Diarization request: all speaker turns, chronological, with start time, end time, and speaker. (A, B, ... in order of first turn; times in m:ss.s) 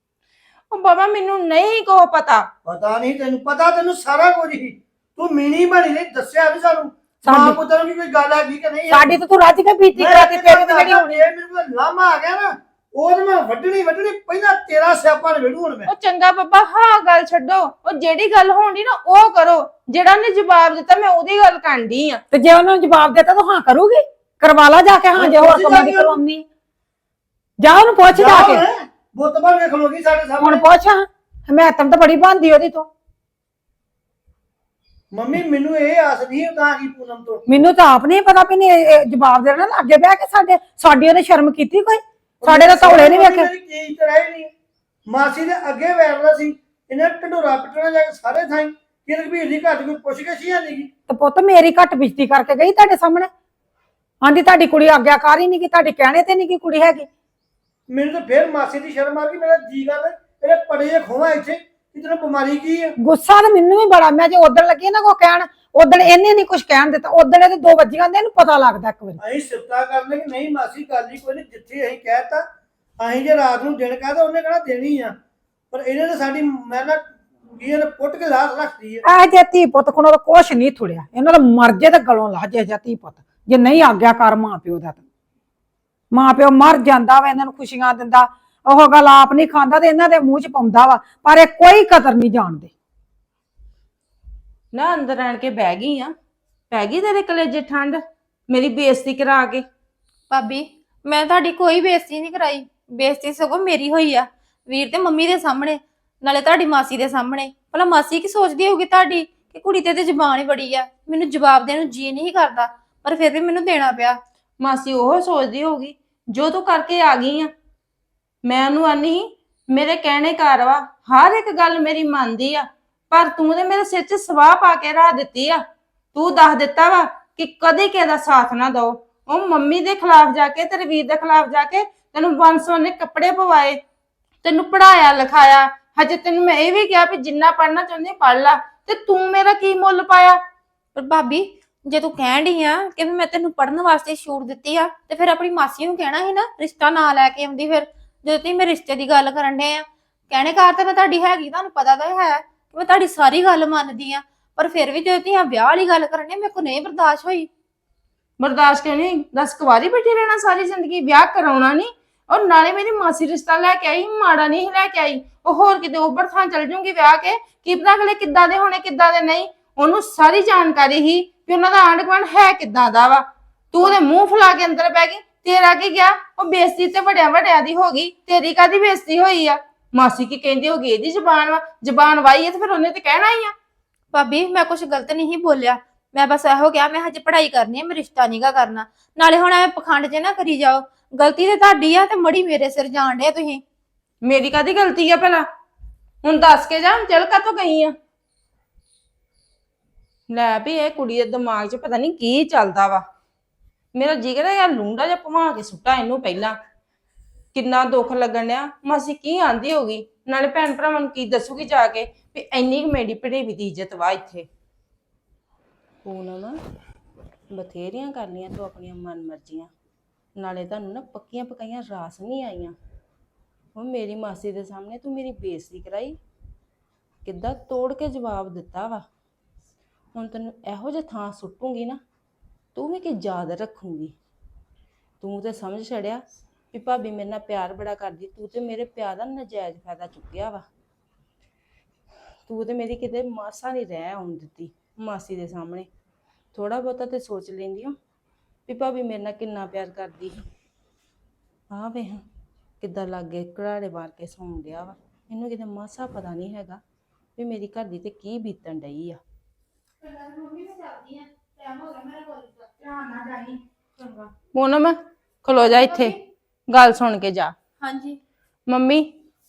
0:00.7-0:02.5 A
0:02.6-0:09.2 B
0:07.2-0:07.6 C
0:08.9-0:11.2 C
0:10.0-0:15.9 B
0:15.9-0:22.2 A
0:22.3-0:26.4 C
0:25.2-0:26.2 B
0:27.6-0:28.6 C
0:28.1-0:30.6 B
0:30.4-0:32.9 C
0:35.1-0:37.4 B
0:37.5-0:43.5 C
0:42.4-0:44.5 B
0:45.1-0:50.9 B
0:51.1-0:53.3 C
0:54.2-0:57.1 C
0:57.9-1:02.9 B
1:03.0-1:09.2 C
1:09.2-1:12.4 B
1:13.0-1:15.1 B
1:15.7-1:17.0 B
1:17.6-1:19.0 B
1:19.0-1:25.0 C
1:26.1-1:32.7 C
1:34.7-1:36.1 A
1:36.7-1:39.7 A
1:40.3-1:54.2 D
1:54.6-1:57.5 A
1:58.4-2:05.6 A
2:06.1-2:13.8 A
2:14.4-2:20.4 A
2:21.0-2:37.5 D
2:38.4-3:03.5 A
3:04.1-3:13.6 D
3:14.2-3:15.4 A
3:16.2-3:17.9 A
3:20.3-3:23.0 A
3:23.9-3:26.6 A
3:27.5-3:34.5 A
3:36.0-3:36.6 A
3:37.5-3:39.7 A
3:40.4-3:42.8 A
3:43.8-3:46.2 A
3:47.2-3:49.0 A
3:50.1-3:52.0 A
3:52.8-3:54.1 A
3:55.2-4:00.6 A
4:02.5-4:05.9 A
4:06.5-4:08.0 A
4:08.7-4:10.4 A
4:11.7-4:12.2 A
4:12.8-4:16.8 A
4:17.4-4:19.2 A
4:20.0-4:24.3 D
4:23.1-4:23.6 C
4:24.5-4:26.2 A
4:25.7-4:26.2 D
4:26.7-4:27.5 A
4:27.8-4:28.2 D
4:28.7-4:29.1 A